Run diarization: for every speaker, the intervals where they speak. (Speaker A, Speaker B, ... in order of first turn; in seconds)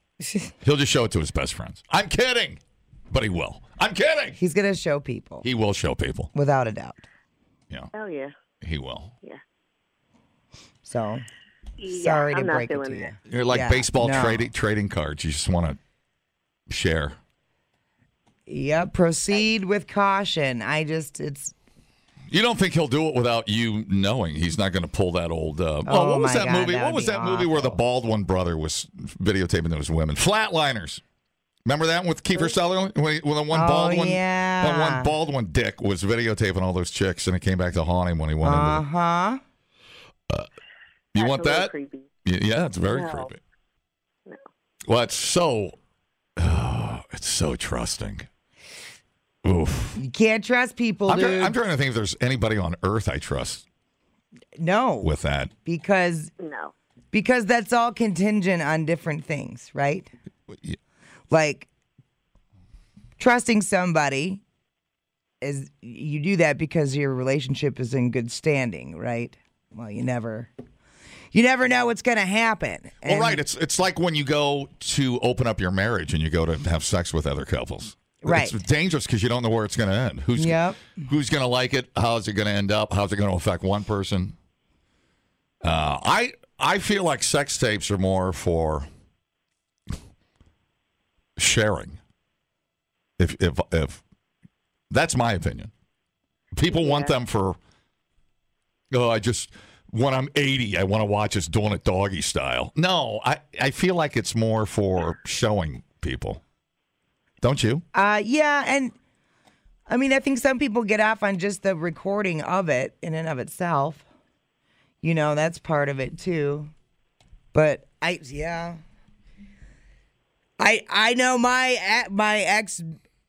Speaker A: 0.2-0.5, 4.4-5.5, 6.3-7.0, 10.8-11.2, 11.9-14.5, 18.5-21.5, 25.9-27.8, 33.5-35.1, 38.4-39.4, 50.0-51.5, 54.6-55.1, 55.6-56.3, 57.1-60.1, 61.3-61.7, 63.2-64.4, 65.4-70.5, 71.3-73.4, 78.2-78.5, 80.3-80.9, 107.9-108.9, 109.9-114.0, 115.0-116.7, 117.5-118.8, 120.6-123.0
Speaker B: 0.6-4.4, 5.4-6.3, 8.6-9.1, 13.3-15.8, 16.7-17.2, 22.3-31.0, 31.6-38.8, 41.1-41.7, 42.2-43.4, 44.9-45.8, 46.4-48.3, 49.4-50.0, 51.1-53.6, 55.0-55.5, 60.5-60.8, 73.0-84.3, 85.6-88.9, 91.4-92.0, 93.2-94.0, 94.9-95.7, 96.5-97.6, 98.9-106.4, 107.4-107.8
Speaker C: 7.9-8.3, 11.8-13.1, 41.1-42.1, 42.9-43.3, 56.4-56.7, 96.7-97.1